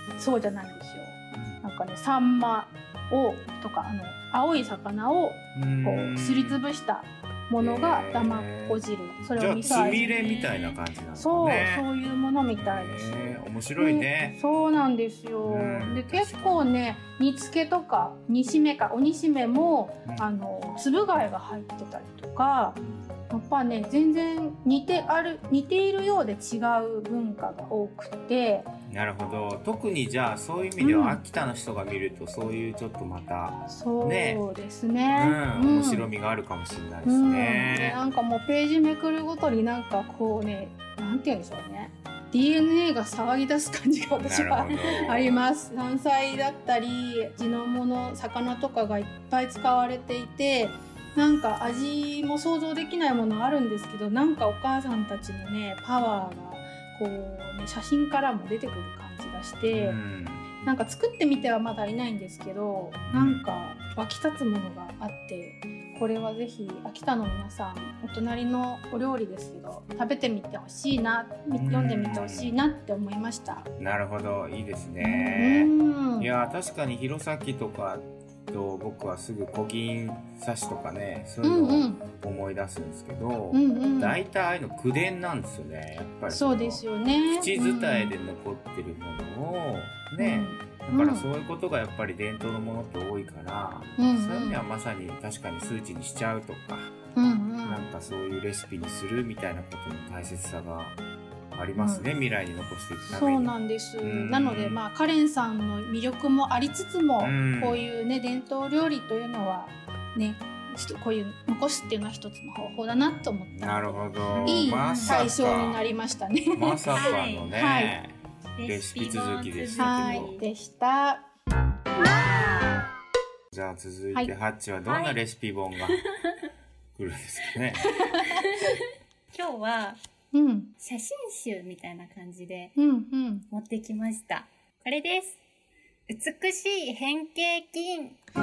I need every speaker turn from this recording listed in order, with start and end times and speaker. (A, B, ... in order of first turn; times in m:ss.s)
0:00.2-0:10.2 A
0:01.3-0:01.6 B
0:05.5-0:06.6 B
0:07.6-0:08.8 B
0:09.4-0:11.8 B
0:09.6-0:10.8 C
0:11.2-0:22.8 A
0:12.6-0:14.4 B
0:15.4-0:16.7 B
0:22.8-0:23.1 B
0:23.3-0:28.7 A
0:28.9-0:34.4 B
0:30.8-0:31.2 A
0:33.7-0:36.1 A
0:35.2-0:38.0 B
0:37.1-1:00.0 A
0:44.2-0:45.4 B
0:59.7-1:00.5 B
1:00.6-1:13.7 A
1:03.1-1:03.5 B
1:11.5-1:12.6 B
1:13.8-1:36.9 B
1:15.0-1:16.3 A
1:21.4-1:22.0 A
1:23.5-1:24.2 A
1:26.3-1:28.1 A
1:30.2-1:31.3 A
1:34.0-1:34.6 A
1:37.2-1:37.9 A
1:37.6-1:41.0 B
1:41.5-1:44.8 B
1:41.8-1:42.0 A
1:43.1-1:57.9 A
1:47.2-1:47.8 B
1:53.5-1:55.8 B
1:54.3-1:55.2 C
1:56.5-2:00.3 B
1:56.9-1:57.5 C
1:58.6-2:00.5 C
1:59.8-2:01.3 A
2:03.5-2:06.0 B
2:04.9-2:05.2 C
2:07.0-2:08.0 B
2:08.0-2:08.7 A
2:08.3-2:10.0 C
2:10.3-2:10.7 A
2:10.8-2:12.8 C
2:12.8-2:13.5 A
2:13.5-2:15.4 C
2:16.1-2:18.2 C